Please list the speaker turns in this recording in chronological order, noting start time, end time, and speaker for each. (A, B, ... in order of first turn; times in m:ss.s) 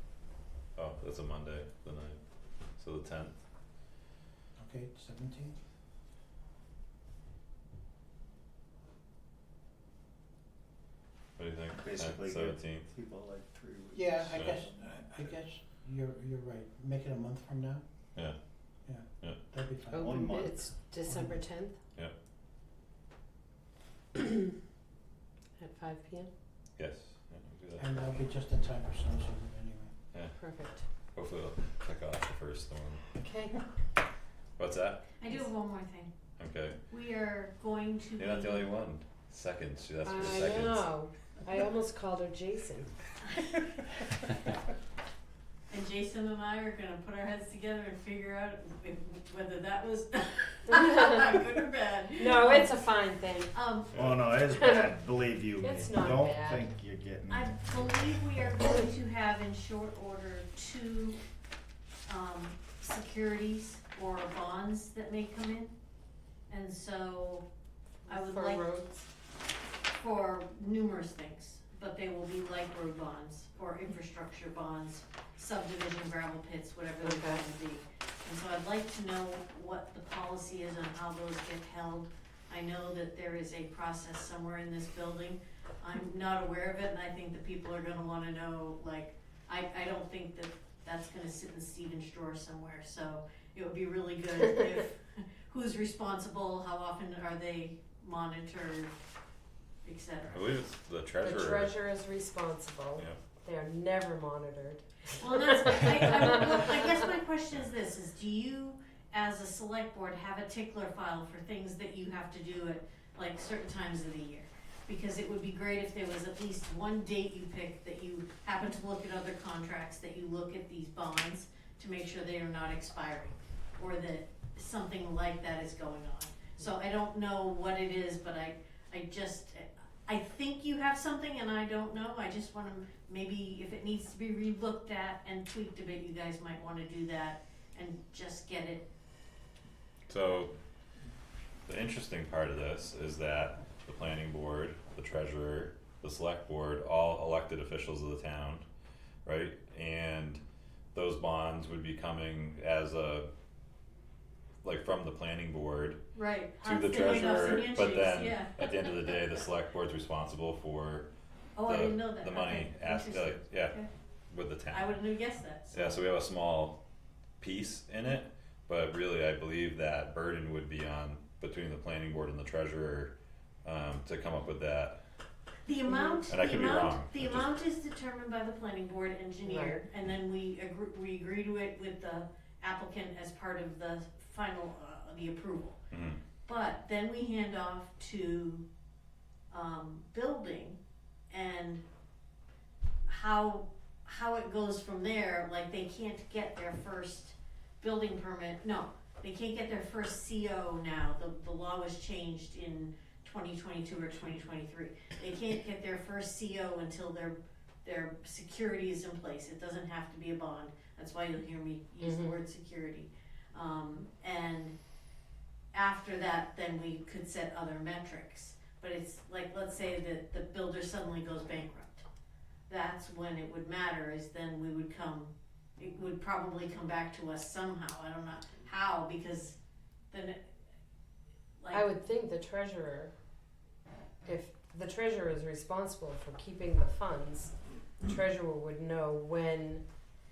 0:00.8-0:02.2 A
0:02.8-0:03.4 A
0:04.6-0:05.6 B
0:11.4-0:12.9 A
0:11.8-0:14.8 C
0:14.0-0:17.8 B
0:18.9-0:20.2 B
0:19.9-0:21.8 D
0:20.0-0:20.8 C
0:21.0-0:21.4 B
0:25.6-0:26.3 D
0:26.8-0:27.9 A
0:27.8-0:29.9 B
0:30.4-0:30.8 D
0:31.1-0:33.0 A
0:33.2-0:33.6 D
0:34.6-0:35.0 A
0:35.2-0:36.1 E
0:36.4-0:36.8 A
0:36.9-0:38.7 E
0:38.2-0:40.9 A
0:40.0-0:42.9 D
0:45.7-0:52.8 E
0:52.2-0:53.6 D
0:53.5-0:54.0 E
0:53.9-0:58.3 C
0:54.5-0:54.9 D
0:55.6-0:56.6 D
0:57.3-1:01.2 E
1:02.1-1:05.7 E
1:06.5-1:07.5 E
1:08.0-1:09.0 D
1:08.1-1:08.8 E
1:09.9-1:39.0 E
1:17.0-1:17.4 D
1:39.8-1:40.4 E
1:40.3-1:41.8 A
1:41.2-1:46.2 D
1:45.2-2:18.9 E
2:20.1-2:20.5 A
2:21.7-2:28.6 A
2:29.2-2:30.4 A
2:30.9-2:33.3 A
2:34.6-2:36.0 A
2:36.2-2:39.2 E
2:36.6-2:41.1 A
2:41.6-2:43.9 E
2:41.7-2:43.8 A
2:44.3-2:45.0 A
2:44.7-2:46.0 E
2:45.7-2:46.8 A
2:47.4-2:53.1 A
2:53.6-2:55.0 A
2:55.7-3:05.8 E
2:56.3-2:57.5 A
2:59.5-2:59.8 D
3:05.9-3:06.2 A
3:06.5-3:08.6 E
3:09.5-3:10.8 E
3:11.3-3:11.8 E
3:13.1-3:34.8 E
3:32.0-3:32.4 D
3:35.7-3:42.0 E
3:42.7-3:49.6 E
3:50.1-3:50.4 E
3:51.6-3:51.9 E
3:51.7-3:53.1 D
3:54.3-3:59.8 D